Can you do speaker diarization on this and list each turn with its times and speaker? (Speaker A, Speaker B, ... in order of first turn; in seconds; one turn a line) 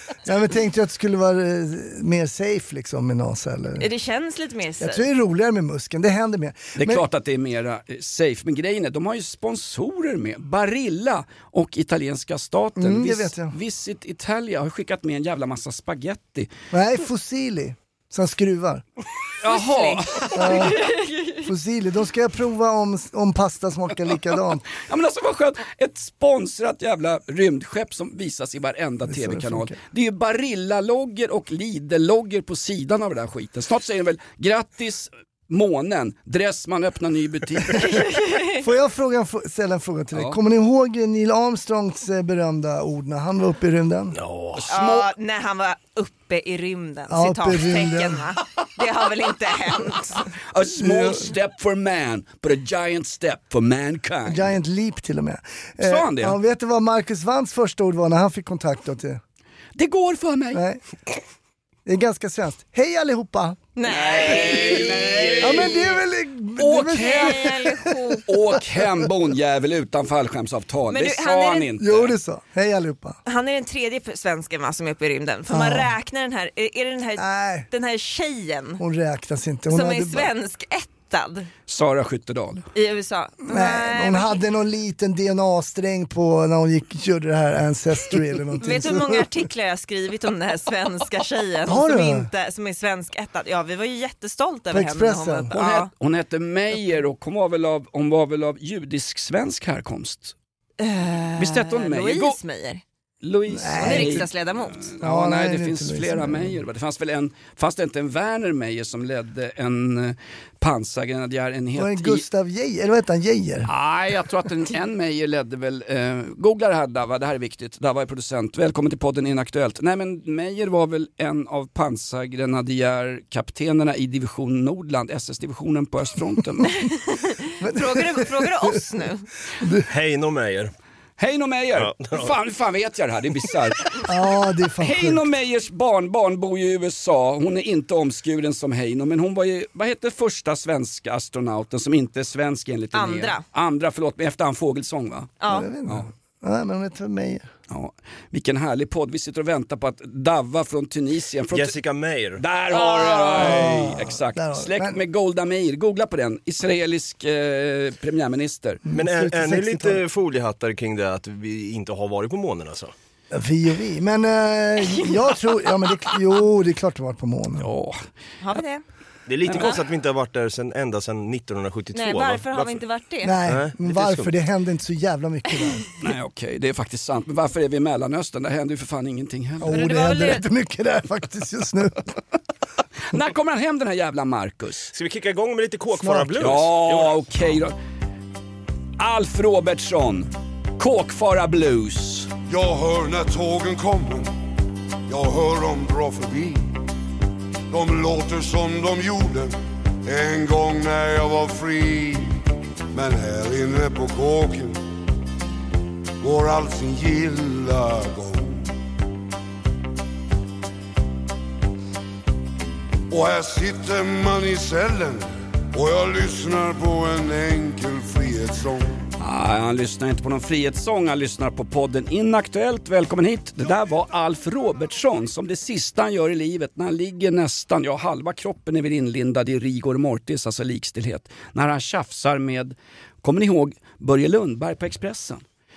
Speaker A: 0.3-3.9
Speaker B: 3.8-5.0
Speaker A: 4.8-7.0
Speaker C: 6.8-16.5
Speaker A: 12.8-13.6
Speaker A: 16.7-18.8
Speaker C: 19.4-20.8
Speaker B: 19.5-21.5
Speaker A: 20.4-20.8
Speaker A: 21.4-24.6
Speaker C: 24.8-38.0
Speaker A: 29.1-29.8
Speaker B: 37.8-38.6
Speaker A: 38.5-44.2
Speaker D: 44.1-44.6
Speaker C: 44.5-45.1
Speaker B: 44.7-50.3
Speaker A: 47.1-48.2
Speaker C: 50.5-54.5
Speaker A: 50.8-51.3
Speaker A: 54.3-59.2
Speaker C: 55.8-56.4
Speaker C: 59.8-60.6
Speaker A: 60.5-60.8
Speaker A: 61.9-63.6
Speaker B: 63.8-65.6
Speaker C: 63.9-65.8
Speaker A: 65.4-67.9
Speaker C: 66.6-67.5
Speaker B: 66.9-68.2
Speaker C: 68.3-72.2
Speaker B: 70.9-71.7
Speaker A: 71.8-73.2
Speaker B: 73.3-78.8
Speaker A: 75.5-75.9
Speaker A: 77.2-77.7
Speaker A: 78.8-80.3
Speaker B: 79.7-81.5
Speaker C: 81.7-82.7
Speaker B: 82.8-84.4
Speaker A: 83.5-89.3
Speaker B: 88.6-95.9
Speaker A: 91.7-92.3
Speaker A: 94.7-95.5
Speaker C: 95.5-100.3
Speaker B: 100.8-102.8
Speaker C: 101.4-102.4
Speaker C: 103.2-112.2
Speaker A: 103.5-104.3
Speaker B: 103.8-104.9
Speaker A: 105.0-106.6
Speaker A: 111.8-113.7
Speaker C: 113.7-126.8
Speaker B: 126.9-129.3
Speaker A: 127.6-128.8
Speaker A: 129.6-129.9
Speaker D: 129.9-130.7
Speaker C: 131.2-133.9
Speaker D: 131.8-132.3
Speaker A: 134.0-135.3
Speaker C: 134.8-145.3
Speaker B: 142.9-143.4
Speaker B: 145.4-145.7
Speaker A: 145.5-147.5
Speaker C: 147.7-151.8
Speaker D: 151.5-152.4
Speaker C: 152.4-158.8
Speaker B: 152.7-153.6
Speaker A: 153.3-155.0
Speaker A: 158.9-160.0
Speaker D: 158.9-162.9
Speaker A: 163.3-167.7
Speaker C: 167.6-168.0
Speaker B: 168.4-168.8
Speaker D: 169.3-172.8
Speaker B: 171.9-173.4
Speaker A: 173.2-175.8
Speaker D: 173.5-174.3
Speaker C: 176.0-179.7
Speaker A: 179.6-182.1
Speaker B: 179.7-180.4
Speaker C: 183.1-184.9
Speaker D: 184.9-187.3
Speaker A: 185.9-186.6
Speaker C: 186.4-187.7
Speaker C: 189.0-192.3
Speaker E: 192.5-194.3
Speaker E: 195.1-196.7
Speaker E: 197.7-199.5
Speaker E: 200.1-202.4
Speaker E: 202.9-204.8
Speaker E: 206.2-208.6
Speaker E: 213.1-219.0
Speaker C: 219.2-235.4